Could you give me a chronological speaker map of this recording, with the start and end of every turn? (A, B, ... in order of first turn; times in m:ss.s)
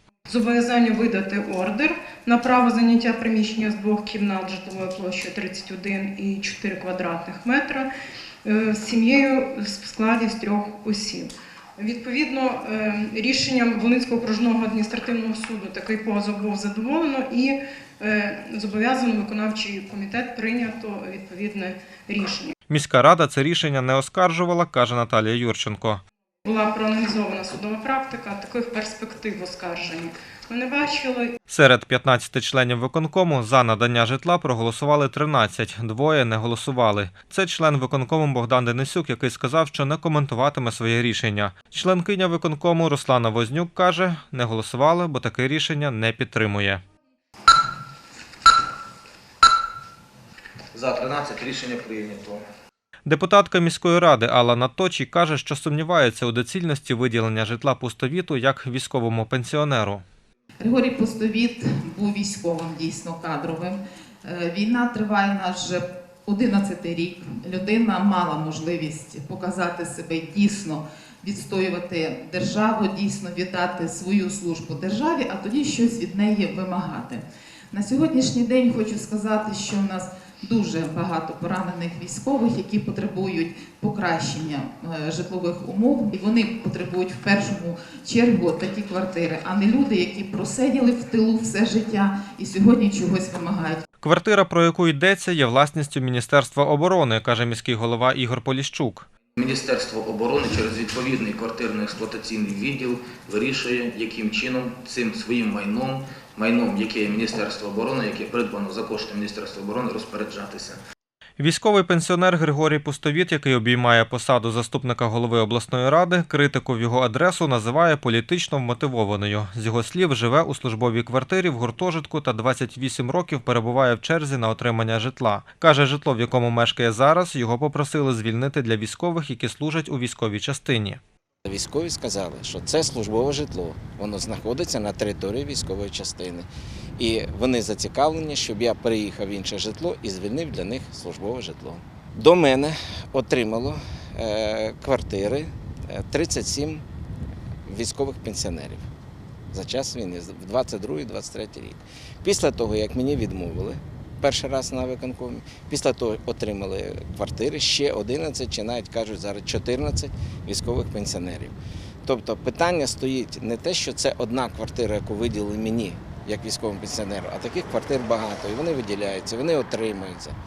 0:00.3-0:07.9 A
0:08.4-0:22.5 A
0:22.7-0:26.0 B
0:26.4-0:31.3 A
0:31.5-0:46.8 B
0:50.7-0:52.4 C
0:53.0-1:00.0 B
1:00.6-1:33.8 D
1:34.0-1:39.1 B
1:39.4-1:50.8 C
1:51.4-2:11.0 B
2:11.4-2:26.8 E
2:27.6-2:28.9 E
2:29.5-2:41.5 E
2:42.0-2:50.3 E